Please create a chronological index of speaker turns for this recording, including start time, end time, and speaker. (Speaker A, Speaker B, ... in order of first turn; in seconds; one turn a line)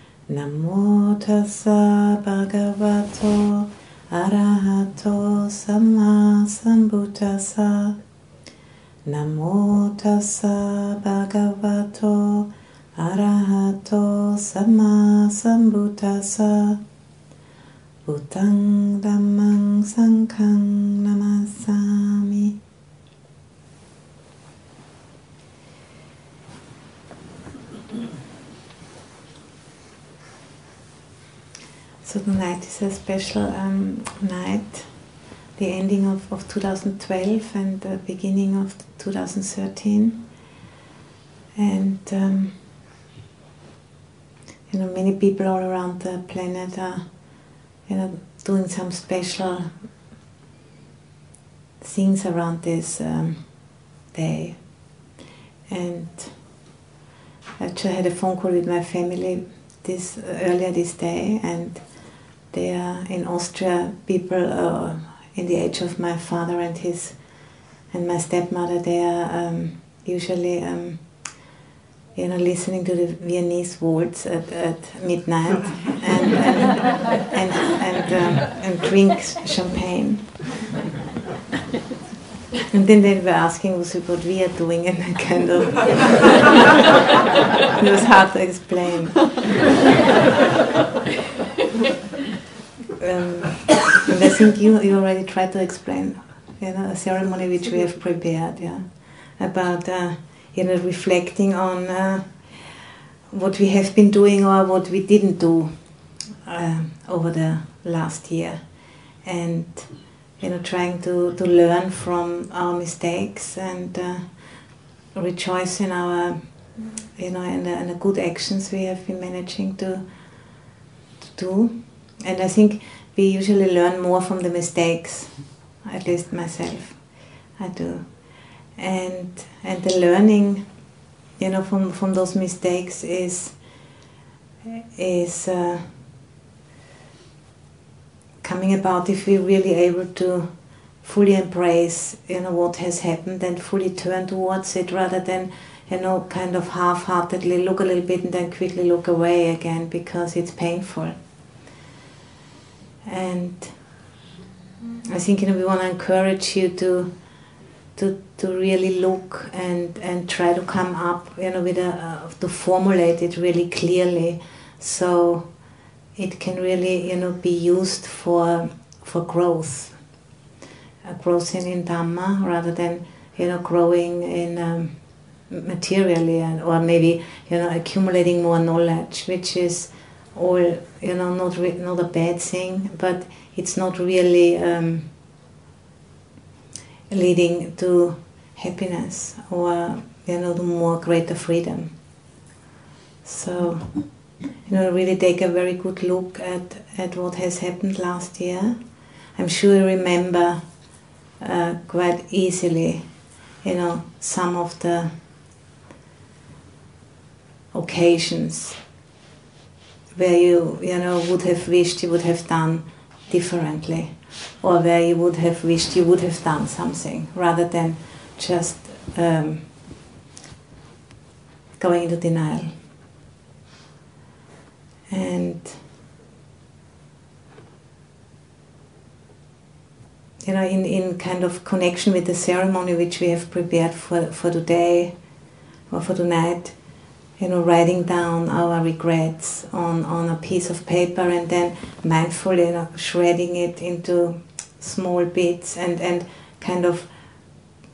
Speaker A: 0.3-8.0
Speaker A: 9.0-16.8
Speaker A: 18.0-22.5
Speaker A: 32.0-40.3
Speaker A: 41.5-42.6
Speaker A: 44.7-49.8
Speaker A: 51.8-55.0
Speaker A: 55.7-56.6
Speaker A: 57.6-71.5
Speaker A: 72.1-80.4
Speaker A: 82.7-86.5
Speaker A: 87.7-89.4
Speaker A: 93.0-120.2
Speaker A: 121.3-133.9
Speaker A: 134.9-136.0
Speaker A: 138.4-151.2
Speaker A: 153.0-154.0
Speaker A: 155.1-157.4
Speaker A: 157.9-170.2
Speaker A: 171.0-185.1
Speaker A: 187.1-192.0
Speaker A: 193.2-205.1
Speaker A: 207.7-208.8
Speaker A: 210.1-219.7
Speaker A: 221.8-222.8
Speaker A: 225.1-225.8
Speaker A: 230.4-247.6